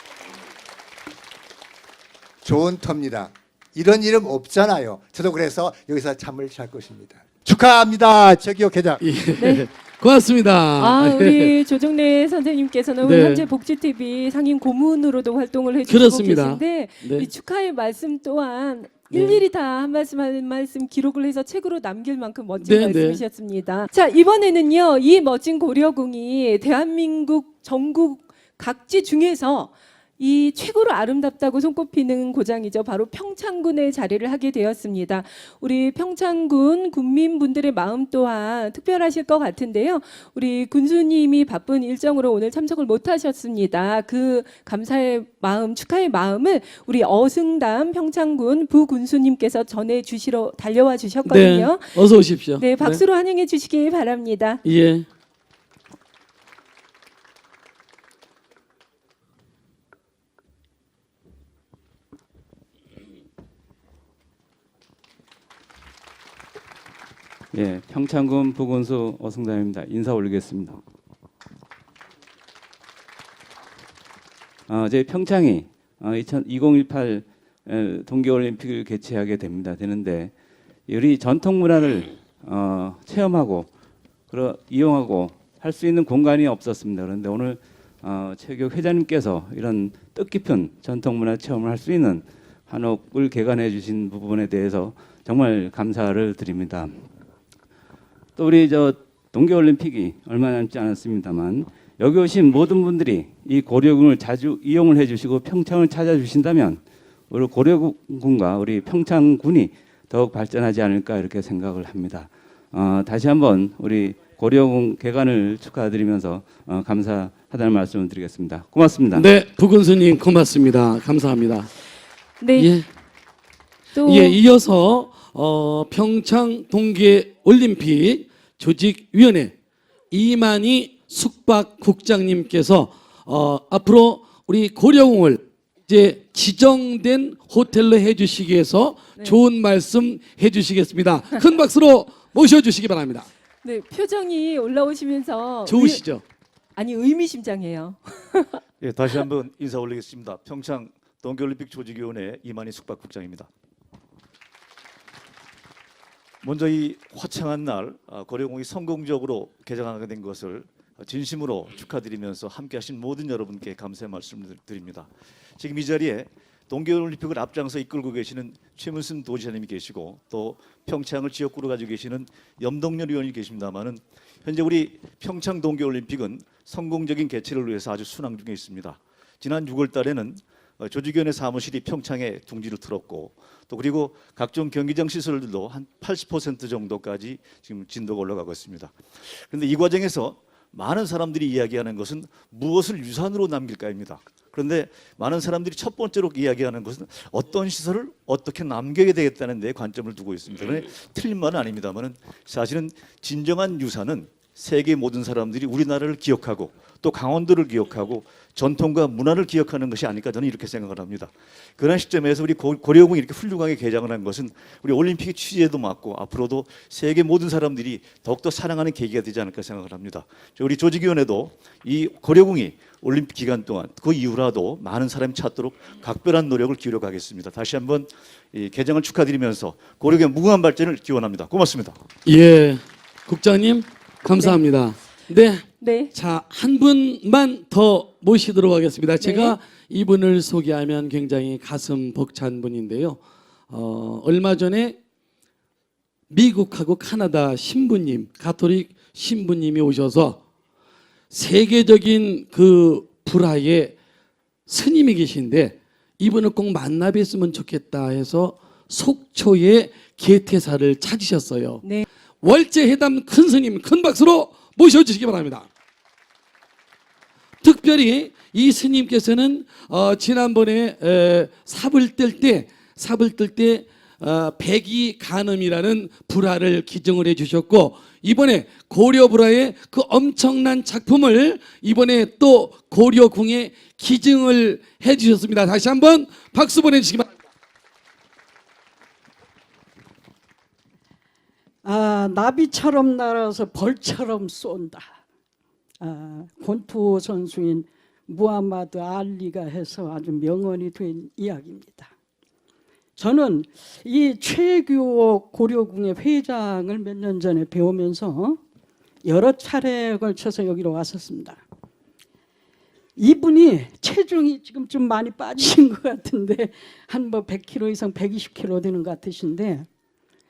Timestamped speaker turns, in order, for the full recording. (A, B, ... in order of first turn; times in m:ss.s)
0:02.4-0:09.0 A
0:09.0-0:11.5 B
0:09.4-0:09.6 C
0:10.8-0:52.0 C
0:13.0-0:13.4 B
0:15.9-0:17.3 B
0:19.1-0:19.4 B
0:22.6-0:23.2 B
0:51.2-0:53.0 B
0:52.6-0:54.6 C
0:54.6-0:55.0 B
1:07.5-1:10.8 D
1:14.7-1:20.3 D
1:20.9-1:23.7 D
1:24.3-1:37.0 D
1:38.4-1:59.2 D
1:59.1-2:01.7 B
2:02.4-2:02.7 C
2:02.6-2:02.9 B
2:03.9-2:04.4 C
2:04.0-2:09.5 B
2:10.1-2:23.3 B
2:23.6-2:26.0 C
2:25.6-2:26.2 B
2:26.8-2:28.6 C
2:28.8-2:33.5 E
2:36.4-3:52.0 E
3:52.2-4:03.2 B
3:55.8-3:56.1 C
3:59.2-3:59.6 C
4:03.7-4:05.0 B
4:06.3-4:10.4 B
4:11.3-4:13.9 B
4:14.7-4:21.8 B
4:22.4-4:25.7 B
4:27.6-4:47.3 B
4:51.8-4:55.2 F
4:56.0-5:02.1 F
5:03.2-5:08.6 F
5:09.2-5:11.6 F
5:13.2-5:19.9 F